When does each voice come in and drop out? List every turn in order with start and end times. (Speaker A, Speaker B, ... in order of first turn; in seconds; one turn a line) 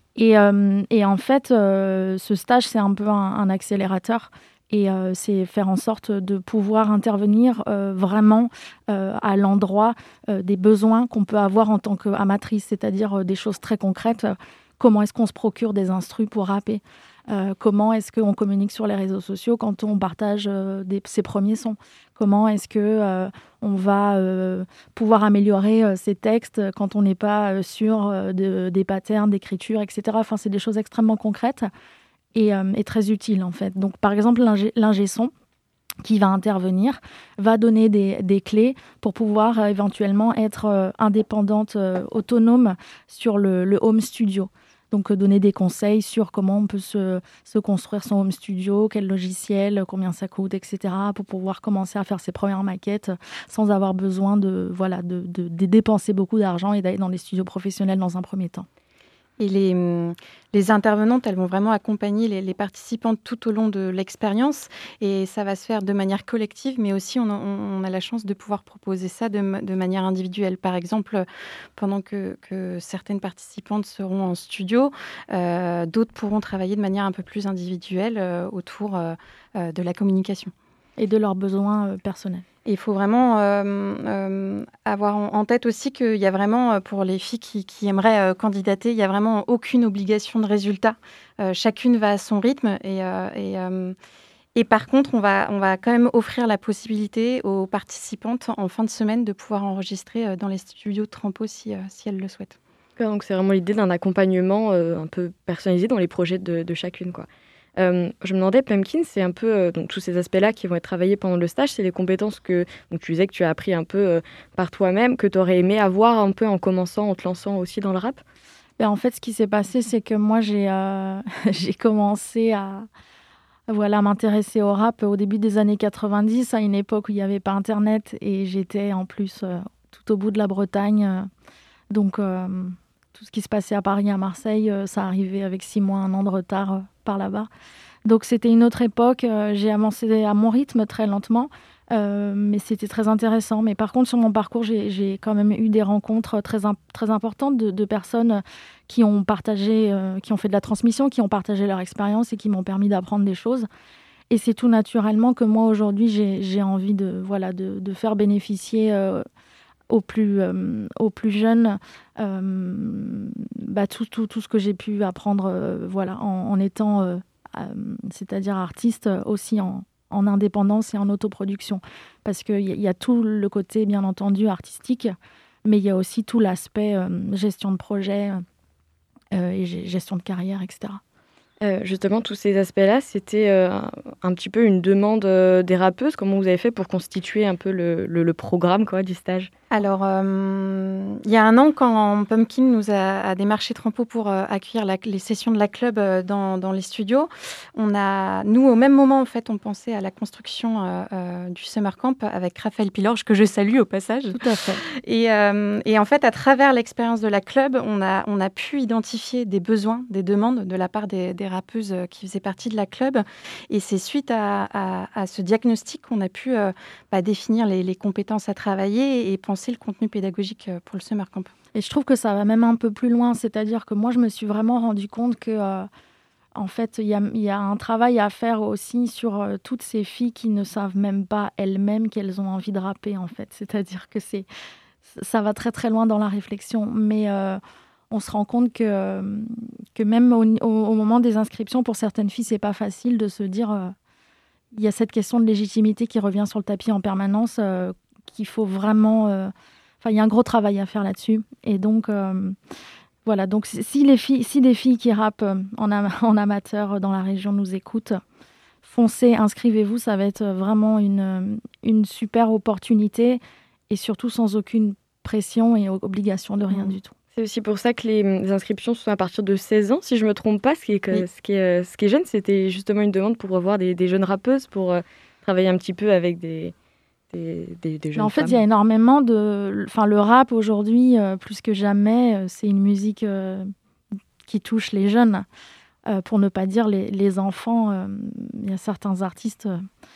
Speaker A: 0.2-31.7
Speaker A: 32.4-35.3
Speaker A: 36.0-58.7
Speaker B: 59.4-71.3
Speaker B: 71.8-80.5
Speaker A: 81.0-82.5
Speaker B: 82.7-94.0
Speaker B: 94.5-102.6
Speaker C: 103.0-118.2
Speaker A: 118.8-122.9
Speaker A: 123.7-131.3
Speaker A: 131.9-137.5
Speaker A: 138.1-153.7
Speaker A: 154.3-159.3
Speaker A: 159.9-178.4
Speaker A: 179.3-181.0
Speaker C: 181.6-189.5
Speaker B: 189.7-221.5
Speaker A: 204.3-204.8
Speaker A: 221.8-225.9
Speaker A: 226.6-234.5
Speaker A: 235.1-237.6
Speaker A: 238.1-243.9
Speaker A: 244.7-252.6
Speaker A: 253.3-258.2
Speaker A: 258.8-267.1
Speaker C: 267.3-276.7
Speaker C: 277.3-278.6
Speaker A: 278.1-283.7
Speaker A: 284.5-285.5
Speaker A: 286.1-289.9